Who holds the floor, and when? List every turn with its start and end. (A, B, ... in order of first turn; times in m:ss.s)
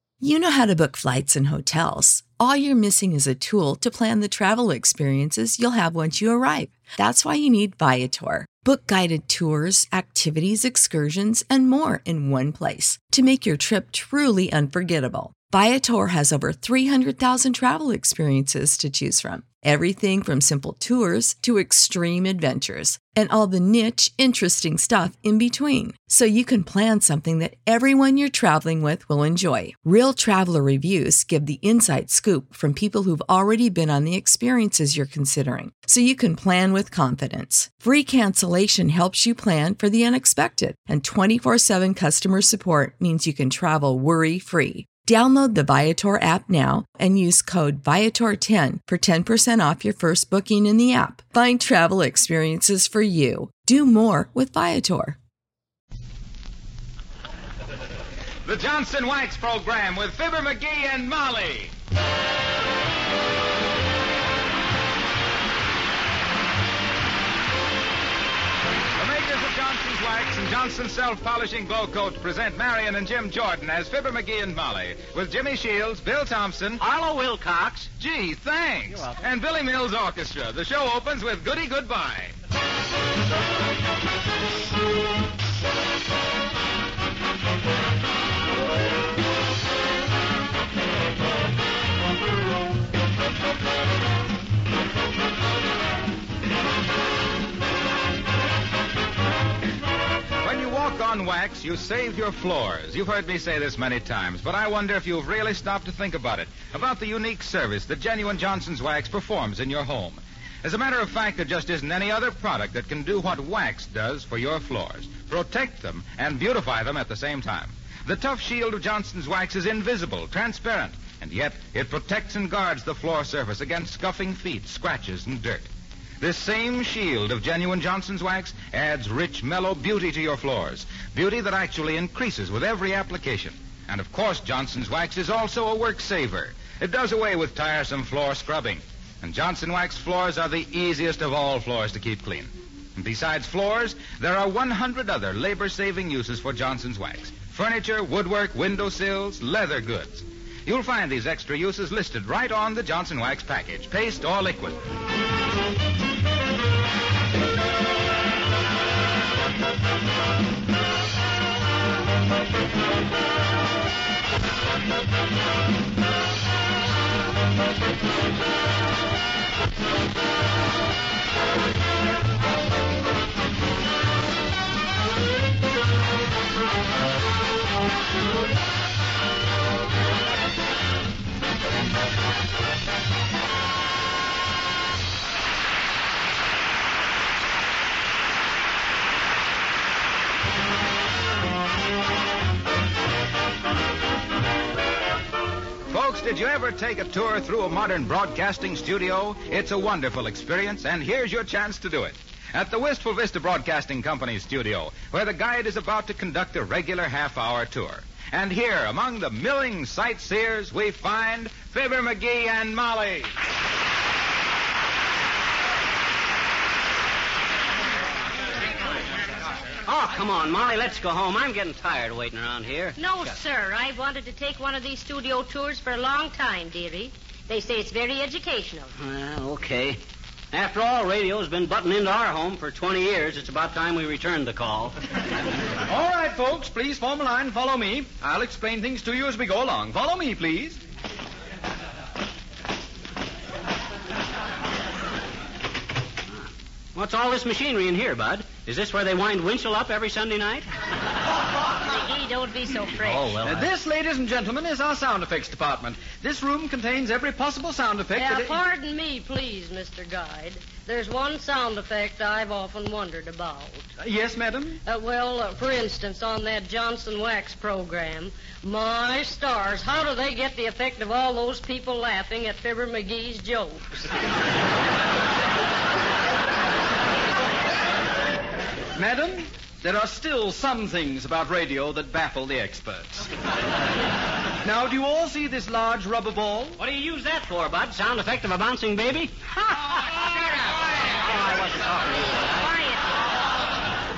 0:00.2-0:55.2 A
0:58.4-1:01.7 B
1:09.0-1:16.8 B
1:16.8-1:17.9 C
1:18.0-1:22.3 B
1:40.4-2:34.8 B
3:15.9-3:33.3 B
3:39.8-3:43.4 C
3:43.0-3:48.9 D
3:49.0-3:50.0 C
3:50.5-3:54.9 C
3:55.8-4:00.8 E
4:06.9-4:10.6 C
4:11.8-4:13.4 D
4:13.0-4:13.7 C
4:13.4-4:18.6 E
4:18.2-4:23.9 D
4:24.0-4:24.8 E
4:24.8-4:34.0 D
4:38.9-4:43.3 E
4:44.6-4:46.8 E
4:46.8-4:50.4 C
4:51.2-4:52.6 C
4:52.6-4:53.2 D